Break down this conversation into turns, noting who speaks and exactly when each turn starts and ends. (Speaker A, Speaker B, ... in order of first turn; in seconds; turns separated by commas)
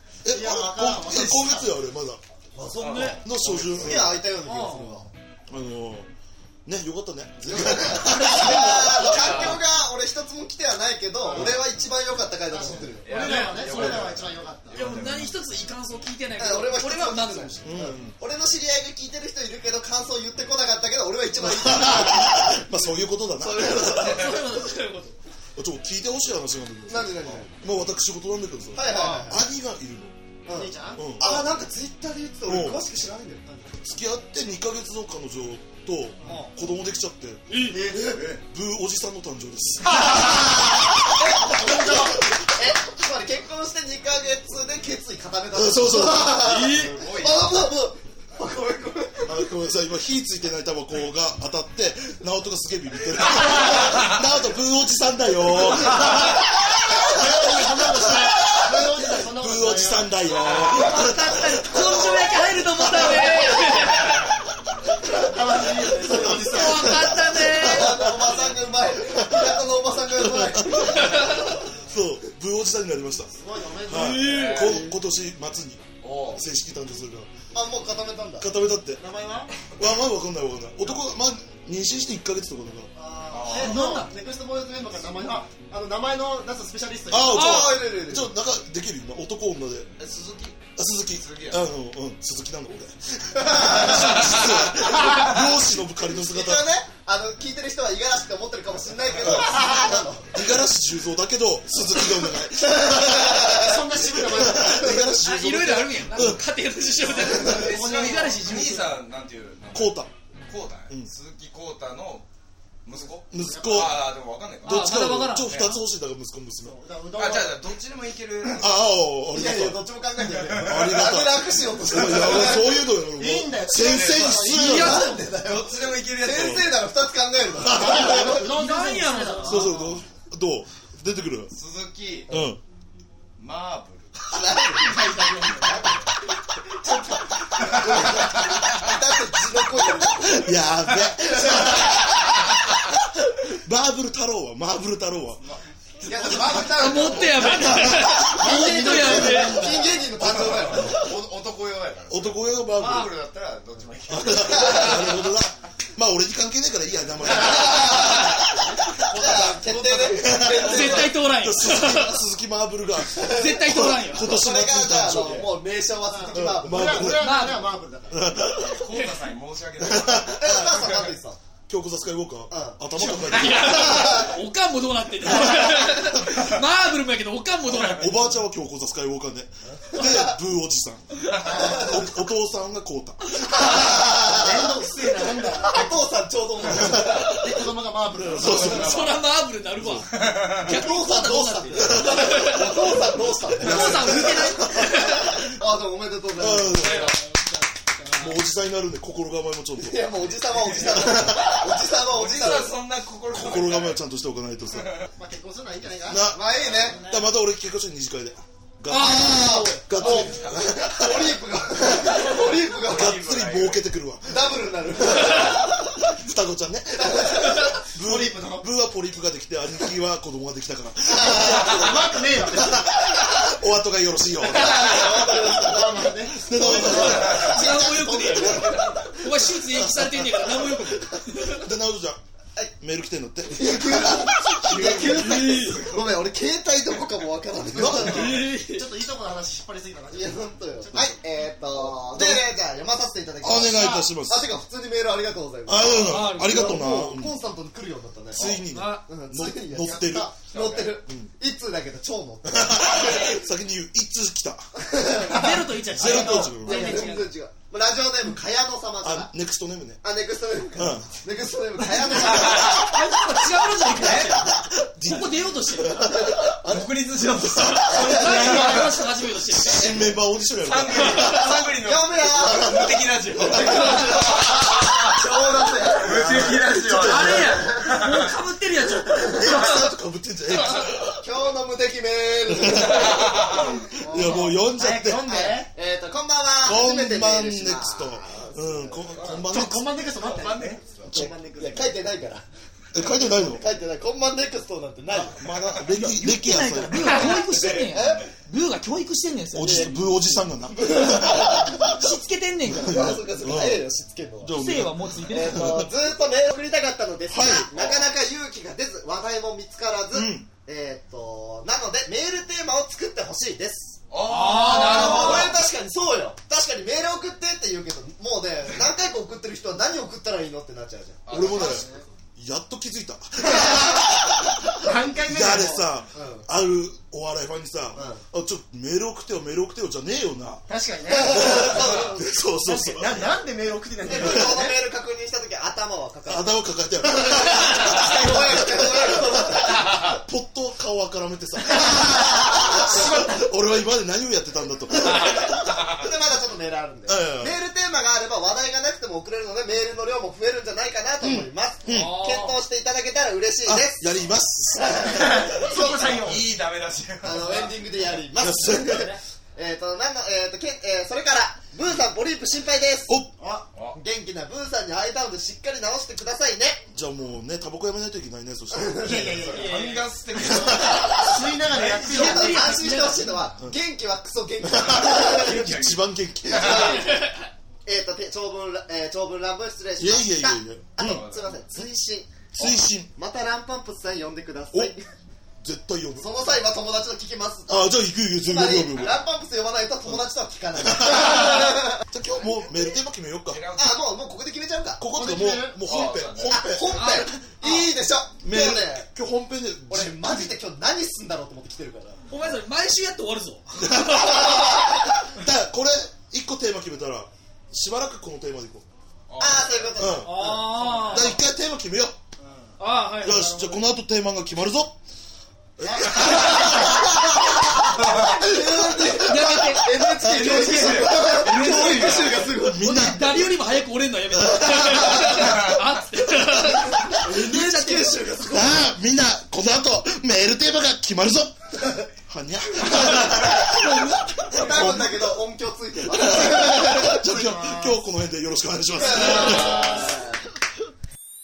Speaker A: 0.2-2.2, Speaker B: 0.3-1.7, Speaker C: 2.5-3.2, Speaker D: 2.8-3.2, Speaker E: 2.8-4.1, Speaker A: 3.2-4.2, Speaker C: 3.8-5.1, Speaker D: 4.4-5.0, Speaker A: 5.5-6.1, Speaker A: 6.7-9.5, Speaker C: 7.5-13.1, Speaker E: 9.0-9.6, Speaker B: 11.2-11.6, Speaker A: 11.3-11.6, Speaker B: 12.5-14.8, Speaker E: 13.0-15.3, Speaker D: 13.1-14.0, Speaker A: 13.7-14.0, Speaker D: 14.7-17.6, Speaker C: 16.4-22.8, Speaker A: 17.6-18.2, Speaker A: 21.4-24.5, Speaker C: 23.4-24.4, Speaker D: 24.0-25.2, Speaker A: 25.6-30.1, Speaker C: 26.9-27.5, Speaker C: 28.7-29.4, Speaker C: 30.4-33.4, Speaker B: 30.5-31.2, Speaker A: 30.9-31.6, Speaker A: 32.5-32.8, Speaker B: 33.5-33.8, Speaker A: 33.8-37.6, Speaker D: 37.5-37.8, Speaker C: 37.7-38.3, Speaker E: 38.0-38.4, Speaker A: 38.5-40.8, Speaker C: 39.9-49.4, Speaker B: 41.4-42.2, Speaker A: 41.7-42.1, Speaker A: 45.5-46.6, Speaker D: 46.4-46.9, Speaker E: 46.7-47.5, Speaker A: 49.2-62.2, Speaker B: 57.0-60.1, Speaker E: 60.4-60.8, Speaker D: 60.7-64.2, Speaker A: 62.7-63.3, Speaker B: 65.2-67.0, Speaker A: 66.0-68.4, Speaker D: 66.2-68.0, Speaker C: 67.5-71.6, Speaker A: 69.0-69.6, Speaker A: 70.2-77.3, Speaker D: 71.0-71.3, Speaker B: 73.3-74.4, Speaker D: 73.9-74.7, Speaker E: 74.1-74.9, Speaker E: 76.0-76.4, Speaker C: 77.5-78.5, Speaker A: 78.4-79.0, Speaker B: 79.0-79.5, Speaker A: 79.8-82.9, Speaker B: 82.9-87.4, Speaker E: 83.3-83.8, Speaker D: 83.5-84.1, Speaker A: 87.1-89.9, Speaker D: 87.3-87.7, Speaker C: 87.3-88.3, Speaker E: 90.0-91.7, Speaker A: 90.8-96.7, Speaker C: 96.1-100.3, Speaker A: 99.2-99.6, Speaker A: 100.3-106.4, Speaker C: 102.7-103.6, Speaker B: 103.5-105.0, Speaker D: 105.2-109.0, Speaker B: 107.2-108.4, Speaker E: 107.2-112.3, Speaker A: 109.7-110.1, Speaker E: 112.8-114.9, Speaker A: 113.3-116.8, Speaker B: 113.5-113.9, Speaker D: 114.6-115.5, Speaker E: 115.4-115.8, Speaker B: 116.6-117.6, Speaker E: 117.2-118.7, Speaker A: 118.6-119.8, Speaker C: 119.3-122.8, Speaker E: 120.2-121.0, Speaker A: 120.6-125.1, Speaker B: 123.1-125.2, Speaker E: 123.7-124.5, Speaker C: 124.5-128.5, Speaker D: 124.7-125.0, Speaker E: 125.4-126.6, Speaker A: 126.3-126.7, Speaker A: 127.6-128.1, Speaker B: 127.7-129.7, Speaker D: 128.4-129.9, Speaker A: 129.4-131.5, Speaker E: 131.5-132.3, Speaker A: 132.3-132.6, Speaker E: 133.4-134.2, Speaker C: 134.3-136.0, Speaker B: 134.8-135.8, Speaker C: 136.8-140.6, Speaker E: 137.6-138.2, Speaker A: 140.2-145.4, Speaker C: 141.3-141.8, Speaker E: 145.4-147.2, Speaker C: 146.1-151.1, Speaker D: 146.7-149.6, Speaker A: 147.4-148.4, Speaker B: 148.2-150.1, Speaker E: 150.2-155.0, Speaker A: 152.1-153.1, Speaker A: 154.1-158.9, Speaker C: 154.5-155.1, Speaker E: 157.3-158.3, Speaker C: 157.3-158.5, Speaker E: 158.9-161.2, Speaker C: 159.1-161.2, Speaker A: 160.2-165.5, Speaker D: 160.6-162.2, Speaker D: 163.2-164.3, Speaker C: 164.2-167.0, Speaker B: 166.1-168.3, Speaker A: 166.3-167.3, Speaker D: 167.2-167.7, Speaker A: 168.1-168.8, Speaker E: 168.4-171.1, Speaker A: 169.8-170.8, Speaker C: 170.4-171.4, Speaker A: 171.7-174.2, Speaker C: 172.5-172.8, Speaker D: 173.1-178.2, Speaker C: 173.3-174.2, Speaker A: 177.7-184.1, Speaker C: 179.9-180.2, Speaker C: 181.5-181.9, Speaker C: 183.4-184.8, Speaker B: 184.1-185.9, Speaker C: 185.5-187.5, Speaker A: 186.6-187.5, Speaker B: 187.2-188.9, Speaker A: 188.1-189.1, Speaker E: 188.4-189.2, Speaker D: 188.6-192.7, Speaker A: 189.8-190.1, Speaker E: 190.1-190.6, Speaker C: 190.6-194.4, Speaker A: 191.7-192.5, Speaker A: 193.6-195.2, Speaker D: 193.6-195.5, Speaker C: 195.4-197.1, Speaker A: 196.4-197.2, Speaker D: 196.8-198.4, Speaker A: 198.2-200.1, Speaker C: 199.8-202.8, Speaker E: 200.6-200.9, Speaker A: 200.9-201.6, Speaker E: 202.1-204.0, Speaker A: 203.3-204.9, Speaker B: 205.2-206.3, Speaker A: 206.1-214.5, Speaker C: 206.3-207.1, Speaker E: 206.6-206.9, Speaker D: 208.9-210.2, Speaker C: 208.9-213.2, Speaker E: 210.1-210.6, Speaker E: 212.7-213.8, Speaker C: 214.3-215.7, Speaker A: 215.0-225.4, Speaker C: 217.0-217.8, Speaker B: 218.0-218.7, Speaker C: 221.2-221.7, Speaker B: 221.6-222.8, Speaker C: 224.5-229.2, Speaker B: 225.7-227.3, Speaker A: 226.3-227.8, Speaker E: 227.0-227.5, Speaker D: 227.2-231.7, Speaker A: 229.5-232.2, Speaker A: 232.8-235.4, Speaker C: 233.5-238.4, Speaker E: 234.6-236.1, Speaker A: 237.7-238.4, Speaker B: 237.9-241.2, Speaker D: 238.0-238.9, Speaker C: 240.1-253.3, Speaker A: 242.1-242.4, Speaker A: 243.4-244.4, Speaker D: 243.8-244.1, Speaker A: 245.7-247.4, Speaker D: 245.9-246.8, Speaker A: 248.3-250.3, Speaker D: 248.7-249.1, Speaker E: 250.5-251.0, Speaker A: 252.4-254.6, Speaker D: 253.0-253.4, Speaker C: 254.8-255.5, Speaker B: 255.2-256.5, Speaker D: 255.3-257.3, Speaker A: 255.9-257.1, Speaker C: 256.5-259.3, Speaker A: 259.0-260.0, Speaker C: 260.0-262.9, Speaker A: 260.7-261.1, Speaker D: 262.5-264.5, Speaker E: 264.0-264.4, Speaker A: 264.6-268.5, Speaker D: 265.1-266.1, Speaker E: 266.6-267.9, Speaker B: 267.9-269.0, Speaker D: 267.9-269.9, Speaker C: 267.9-268.6, Speaker A: 269.5-271.6, Speaker E: 270.6-275.0, Speaker D: 271.0-271.4, Speaker C: 271.8-272.8, Speaker A: 273.4-274.2, Speaker C: 273.5-276.6, Speaker E: 275.9-278.3, Speaker A: 276.3-277.6, Speaker D: 276.9-279.7, Speaker A: 279.4-281.3, Speaker C: 279.4-279.8, Speaker D: 280.5-280.9, Speaker C: 281.2-283.4, Speaker A: 282.5-285.5, Speaker E: 283.0-283.7, Speaker B: 284.0-285.7, Speaker C: 285.7-289.2, Speaker A: 286.6-289.9, Speaker E: 289.2-289.5, Speaker B: 289.3-292.0, Speaker E: 290.0-291.2, Speaker C: 291.1-292.4, Speaker A: 292.9-293.6, Speaker C: 293.0-295.5, Speaker A: 295.1-297.4, Speaker D: 295.9-300.3, Speaker E: 297.1-298.2, Speaker C: 297.7-298.3, Speaker A: 299.5-302.1, Speaker C: 300.9-301.8, Speaker D: 301.4-303.1, Speaker A: 302.7-303.8, Speaker C: 302.8-304.6, Speaker A: 304.4-305.9, Speaker D: 304.6-305.7, Speaker C: 305.3-321.5, Speaker A: 307.3-307.7, Speaker E: 307.7-308.1, Speaker A: 310.1-310.5, Speaker E: 314.1-315.6, Speaker D: 314.2-315.5, Speaker E: 321.3-322.0, Speaker A: 321.3-321.8, Speaker B: 321.5-322.0, Speaker A: 322.4-330.6, Speaker C: 323.4-324.0, Speaker B: 324.8-325.9, Speaker C: 326.1-326.4, Speaker C: 327.9-328.2, Speaker B: 330.7-331.7, Speaker C: 331.1-332.4, Speaker A: 331.2-333.3, Speaker B: 332.6-334.7, Speaker C: 334.0-336.5, Speaker A: 334.1-334.5, Speaker A: 336.2-345.9, Speaker C: 337.1-340.1, Speaker C: 342.4-343.1, Speaker C: 345.9-354.1, Speaker A: 347.1-347.6, Speaker A: 351.2-352.2, Speaker D: 351.9-352.6, Speaker A: 353.6-355.7, Speaker C: 354.7-356.4, Speaker B: 355.2-356.4, Speaker E: 356.1-357.7, Speaker C: 357.2-363.2, Speaker A: 358.4-359.1, Speaker D: 358.8-359.2, Speaker B: 363.4-363.7, Speaker C: 363.9-366.8, Speaker A: 366.9-369.3, Speaker C: 368.7-369.7, Speaker B: 369.0-370.1, Speaker E: 369.5-372.3, Speaker D: 369.5-370.0, Speaker A: 370.6-371.1, Speaker B: 370.8-372.9, Speaker D: 372.0-373.4, Speaker C: 372.0-375.7, Speaker A: 374.6-377.0, Speaker E: 375.1-376.9, Speaker C: 376.5-377.3, Speaker D: 376.6-377.5, Speaker C: 377.8-385.1, Speaker A: 380.0-381.9, Speaker E: 381.0-381.6, Speaker A: 382.5-383.1, Speaker A: 385.6-386.4, Speaker C: 386.2-387.9, Speaker A: 387.7-389.2, Speaker C: 388.4-392.0, Speaker A: 390.8-393.6, Speaker E: 393.5-394.1, Speaker C: 393.8-395.0, Speaker A: 395.0-397.2, Speaker B: 395.1-395.9, Speaker E: 395.8-396.6, Speaker C: 396.5-399.1, Speaker D: 396.9-397.9, Speaker A: 398.4-400.4, Speaker C: 399.9-402.2, Speaker D: 402.3-404.5, Speaker A: 403.8-408.8, Speaker E: 409.3-410.0, Speaker C: 409.4-410.7, Speaker A: 410.0-410.3, Speaker D: 410.2-411.4, Speaker B: 410.7-411.4, Speaker A: 411.1-412.2, Speaker B: 412.4-412.7, Speaker D: 412.8-413.9, Speaker A: 413.2-415.0, Speaker A: 415.8-416.9, Speaker C: 415.9-423.4, Speaker B: 416.3-416.8, Speaker D: 419.2-420.2, Speaker E: 420.2-422.5, Speaker A: 420.4-420.8, Speaker A: 421.5-423.4, Speaker D: 422.8-428.2, Speaker A: 424.3-425.3, Speaker C: 427.1-428.9, Speaker A: 428.5-431.6, Speaker A: 432.2-435.3, Speaker D: 433.8-434.2, Speaker C: 434.5-437.2, Speaker E: 434.6-434.9, Speaker A: 436.0-440.1, Speaker B: 437.2-438.0, Speaker C: 439.0-440.2, Speaker B: 439.0-440.2